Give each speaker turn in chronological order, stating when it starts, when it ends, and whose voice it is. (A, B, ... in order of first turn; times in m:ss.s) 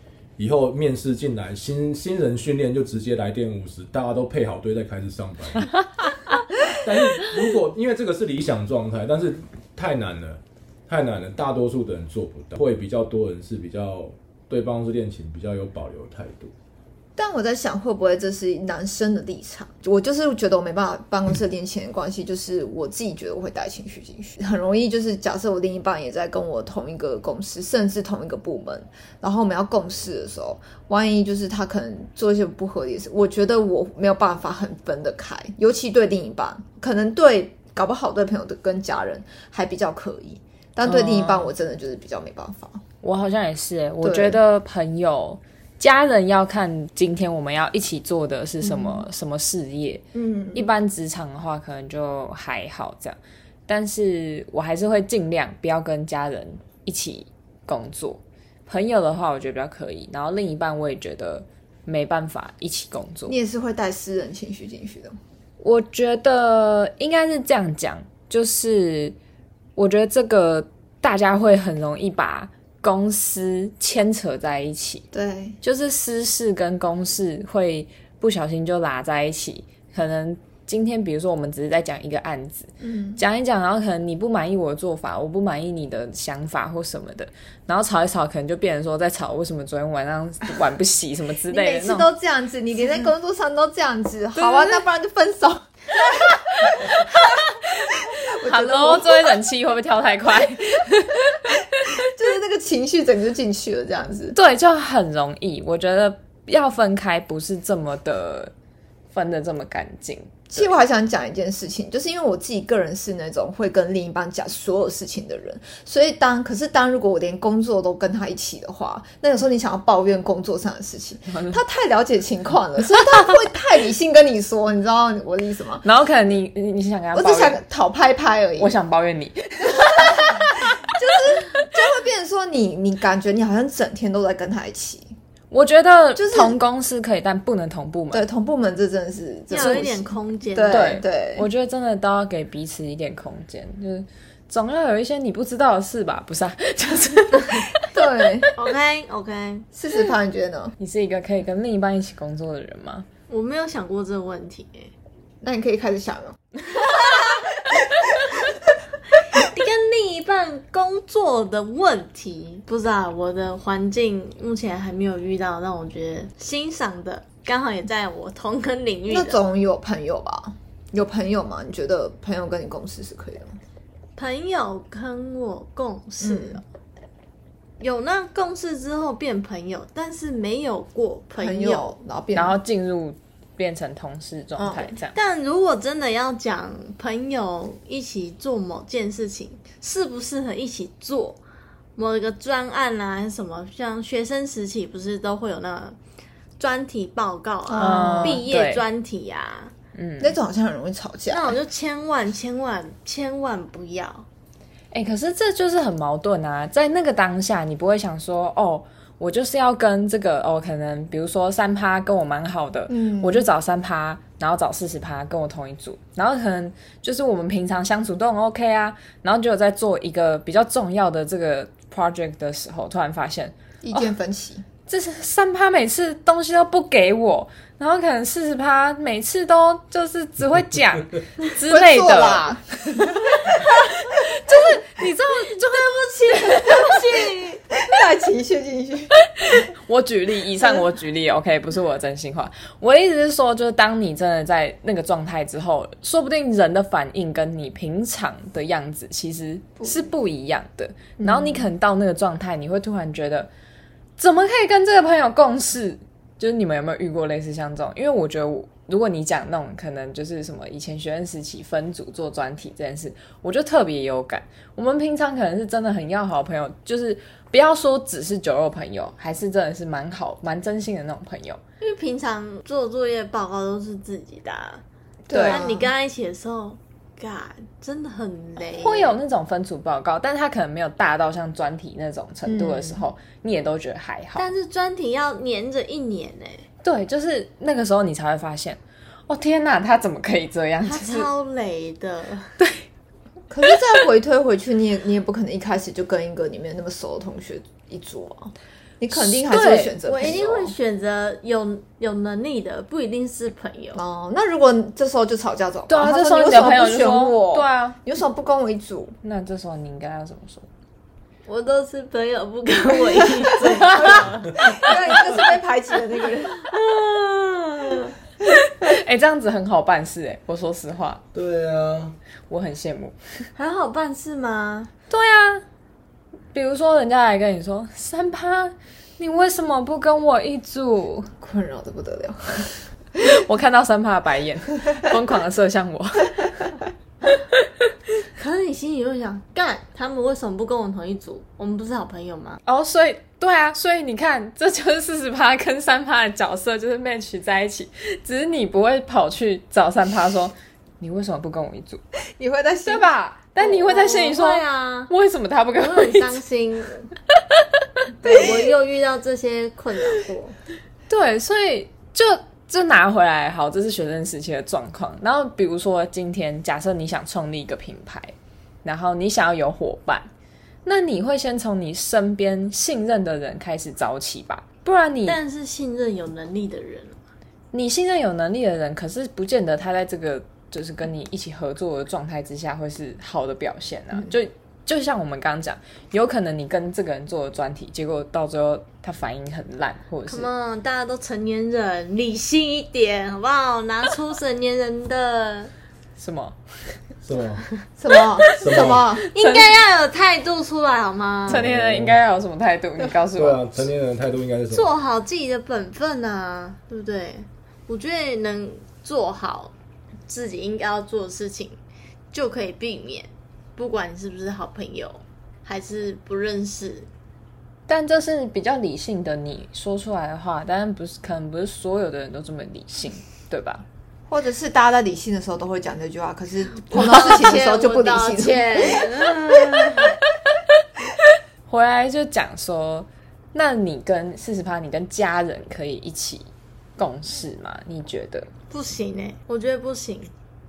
0:00.4-0:05.7 A
0:06.7-0:16.5 A
0:17.2-0:42.8 B
0:40.9-0:41.5 C
0:43.0-0:50.0 C
0:44.0-0:44.4 B
0:48.6-0:49.1 B
0:50.2-0:50.7 B
0:50.5-1:03.4 C
1:03.3-1:05.2 B
1:05.6-1:09.2 C
1:09.8-1:15.0 C
1:15.1-1:15.6 B
1:15.6-1:32.1 C
1:22.8-1:23.2 B
1:31.5-1:37.1 B
1:34.4-1:34.8 C
1:36.6-1:41.5 C
1:37.9-1:39.4 B
1:42.0-1:44.4 B
1:44.3-1:48.5 C
1:49.1-1:50.5 C
1:50.5-2:05.8 B
2:01.3-2:01.6 C
2:05.8-2:07.6 C
2:07.1-2:08.8 B
2:08.6-2:10.9 C
2:09.6-2:15.1 B
2:15.5-2:18.2 C
2:16.2-2:16.6 B
2:18.1-2:21.5 B
2:19.5-2:21.0 D
2:19.6-2:19.9 C
2:20.7-2:27.7 C
2:27.9-2:28.5 B
2:28.6-2:29.7 D
2:29.8-2:30.8 B
2:30.8-2:33.1 C
2:33.3-2:34.9 D
2:35.4-2:37.8 B
2:39.3-2:49.4 D
2:49.1-2:53.6 B
2:54.2-2:56.6 D
2:56.2-2:56.6 B
2:57.8-3:01.9 D
3:01.4-3:02.6 B
3:02.4-3:05.2 C
3:04.6-3:04.9 B
3:05.1-3:11.4 D
3:12.0-3:16.0 D
3:16.6-3:19.7 D
3:17.7-3:18.5 B
3:17.8-3:18.8 C
3:20.0-3:20.3 C
3:20.2-3:21.6 B
3:21.3-3:24.2 D
3:24.9-3:43.5 C
3:32.9-3:33.5 B
3:43.8-3:44.6 B
3:44.9-3:52.6 C
3:51.6-3:53.7 B
3:53.4-3:56.8 C
3:55.4-3:57.8 D
3:57.8-3:59.1 B
3:59.4-4:13.5 C
4:11.2-4:11.7 B
4:14.2-4:31.6 C
4:31.8-4:34.8 D
4:35.3-4:35.9 B
4:35.3-4:35.6 C
4:35.4-4:39.1 D
4:38.7-4:44.5 C
4:42.5-4:43.0 B
4:44.4-4:46.6 D
4:46.8-4:51.3 C
4:50.8-4:52.5 D
4:52.6-4:52.8 C
4:53.5-5:00.8 B
4:59.1-5:00.0 C
5:00.0-5:04.0 D
5:04.0-5:09.2 B
5:05.9-5:08.0 C
5:09.2-5:10.7 C
5:11.5-5:15.4 D
5:14.6-5:16.6 B
5:16.6-5:18.1 D
5:18.7-5:21.2 C
5:21.3-5:22.2 A
5:22.5-5:23.5 C
5:23.6-5:24.9 D
5:25.1-5:25.6 C
5:26.5-5:31.3 C
5:31.4-5:32.8 B
5:33.2-5:36.7 C
5:38.4-5:42.6 D
5:42.6-5:52.0 C
5:52.4-5:53.1 B
5:52.8-5:56.4 C
5:53.6-5:55.1 D
5:55.8-5:57.1 D
5:58.2-6:00.6 D
6:01.1-6:10.3 C
6:10.8-6:15.4 C
6:15.2-6:17.2 D
6:17.7-6:30.5 C
6:30.3-6:35.7 D
6:36.2-6:36.6 C
6:37.2-6:37.6 A
6:38.0-6:39.2 B
6:38.6-6:39.1 A
6:39.2-6:39.7 C
6:39.2-6:41.6 D
6:41.5-6:42.2 A
6:41.5-6:43.8 C
6:43.3-6:44.9 A
6:44.7-6:49.7 D
6:50.3-6:51.8 D
6:52.3-6:57.1 D
6:57.9-7:03.8 C
7:04.3-7:09.1 B
7:06.9-7:10.2 D
7:11.7-7:18.5 C
7:18.7-7:20.3 D